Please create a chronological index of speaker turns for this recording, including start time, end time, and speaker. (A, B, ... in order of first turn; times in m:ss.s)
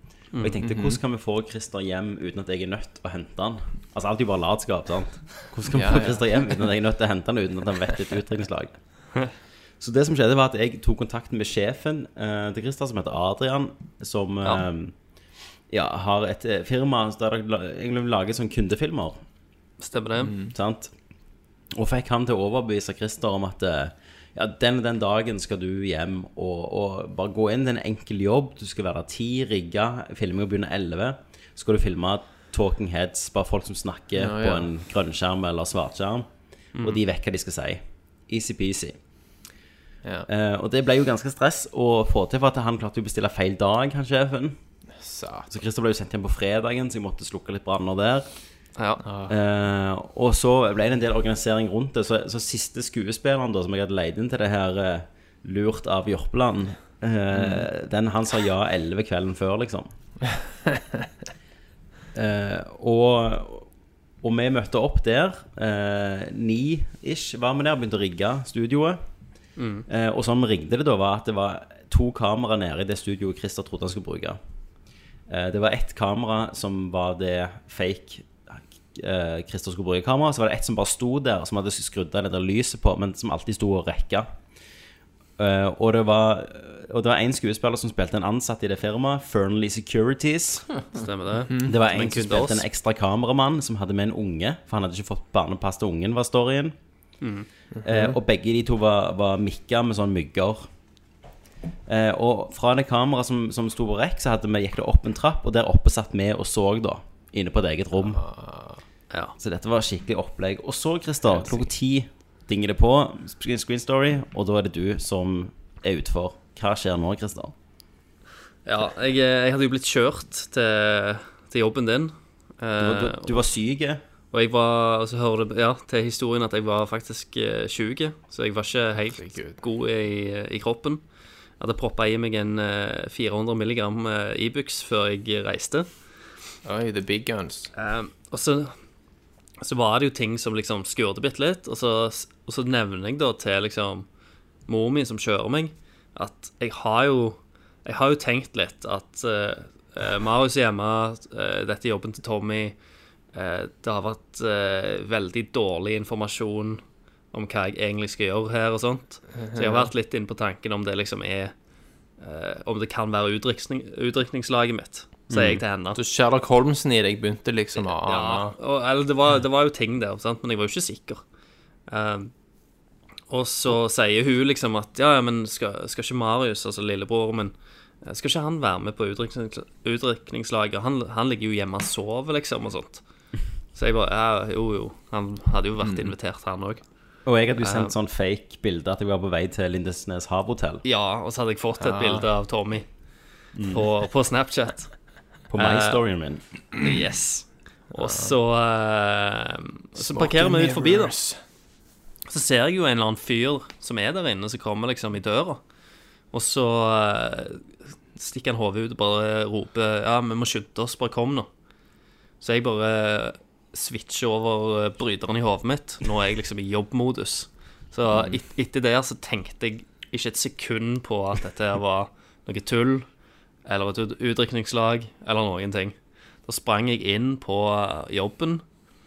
0:00.3-0:00.6 A
0:00.4-0:08.8 B
0:00.6-0:01.0 C
0:05.7-0:06.5 C
0:09.8-0:14.9 B
0:15.7-0:19.2 B
0:19.8-0:20.3 A
0:20.2-0:20.5 C
0:20.5-0:20.9 B
0:21.8-0:36.3 B
0:34.1-0:34.7 C
0:36.8-0:37.0 A
0:36.8-0:39.0 B
0:40.3-0:44.6 B
0:45.0-0:45.5 C
0:45.5-0:48.3 B
0:48.8-0:49.0 A
0:49.0-0:49.4 C
0:49.3-0:59.9 B
0:57.3-0:57.6 C
1:02.1-1:03.7 B
1:04.2-1:09.0 B
1:09.6-1:09.8 A
1:09.9-1:14.4 B
1:15.3-1:24.3 B
1:25.4-1:30.7 B
1:30.9-1:32.6 A
1:31.6-1:36.7 B
1:37.2-1:37.5 A
1:37.8-1:38.2 C
1:37.8-1:40.6 B
1:41.9-1:48.2 B
1:48.0-1:48.8 C
1:49.4-1:57.5 B
1:58.6-2:03.5 A
2:02.8-2:04.0 B
2:04.3-2:11.0 A
2:09.1-2:09.6 C
2:11.6-2:15.9 A
2:16.6-2:17.7 C
2:17.7-2:18.7 A
2:19.6-2:24.0 A
2:24.7-2:32.7 A
2:33.3-2:41.5 A
2:39.4-2:39.9 C
2:42.2-2:46.0 A
2:45.3-2:45.6 B
2:45.9-2:48.6 C
2:47.8-2:51.2 A
2:51.9-2:52.3 A
2:53.3-3:03.0 A
3:03.7-3:06.8 A
3:05.8-3:06.1 C
3:07.2-3:10.8 B
3:07.6-3:07.9 A
3:10.8-3:12.8 A
3:11.8-3:12.3 C
3:13.5-3:13.8 B
3:13.6-3:14.9 A
3:15.5-3:16.4 B
3:15.6-3:16.0 A
3:16.8-3:21.1 A
3:18.0-3:18.3 C
3:20.0-3:21.4 C
3:22.3-3:25.6 A
3:26.3-3:27.6 A
3:28.2-3:31.5 A
3:32.4-3:43.1 A
3:43.6-3:48.6 A